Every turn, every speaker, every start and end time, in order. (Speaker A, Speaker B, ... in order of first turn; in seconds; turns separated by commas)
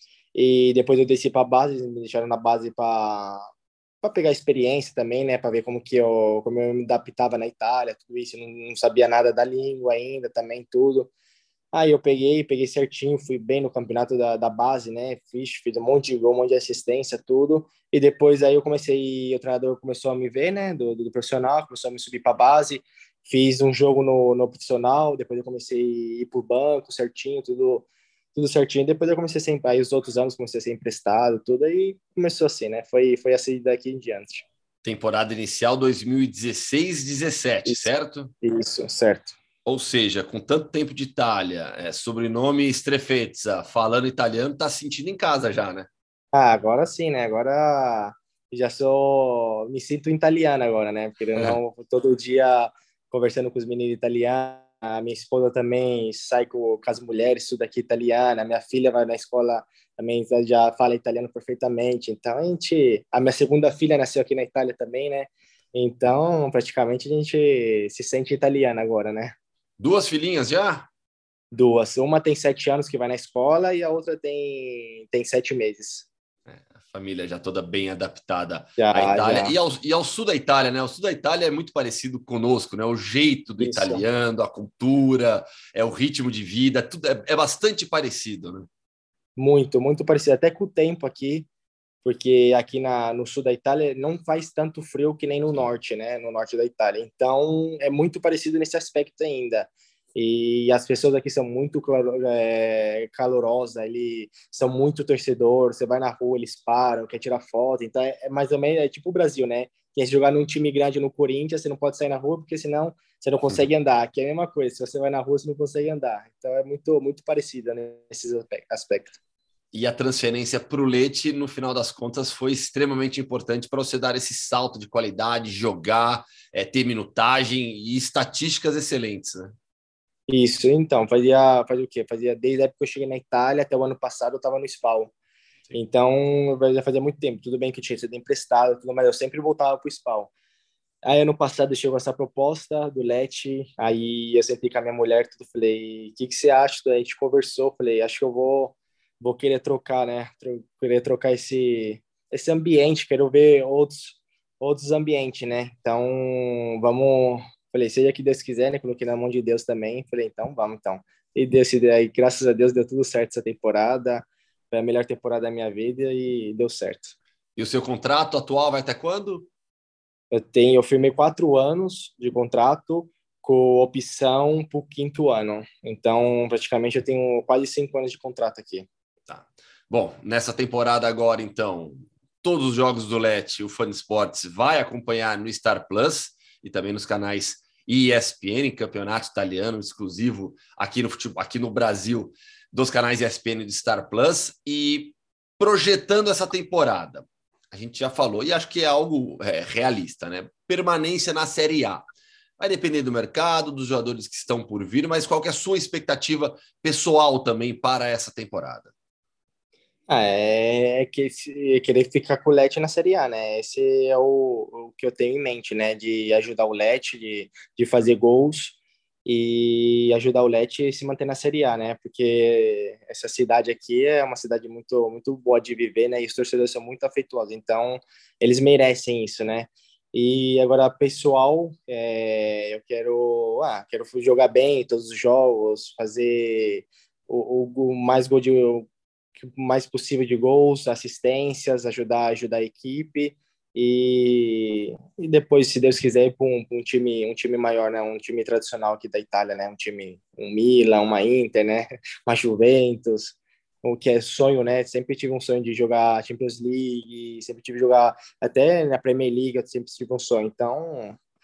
Speaker A: 0.3-3.5, Speaker A: 4.0-11.1, Speaker A: 11.7-34.5, Speaker B: 34.8-38.3, Speaker A: 38.4-39.4, Speaker B: 39.6-45.9, Speaker A: 46.3-69.3, Speaker B: 69.8-70.9, Speaker A: 71.5-76.1, Speaker B: 76.5-88.7, Speaker A: 78.8-79.5, Speaker A: 83.6-84.0, Speaker A: 89.4-91.5, Speaker A: 92.0-119.2, Speaker B: 119.7-129.5, Speaker A: 130.3-135.1, Speaker A: 135.7-140.3, Speaker A: 141.0-167.1, Speaker B: 167.6-169.5, Speaker A: 170.3-178.9, Speaker B: 179.3-202.1, Speaker B: 202.6-208.9, Speaker A: 210.1-261.2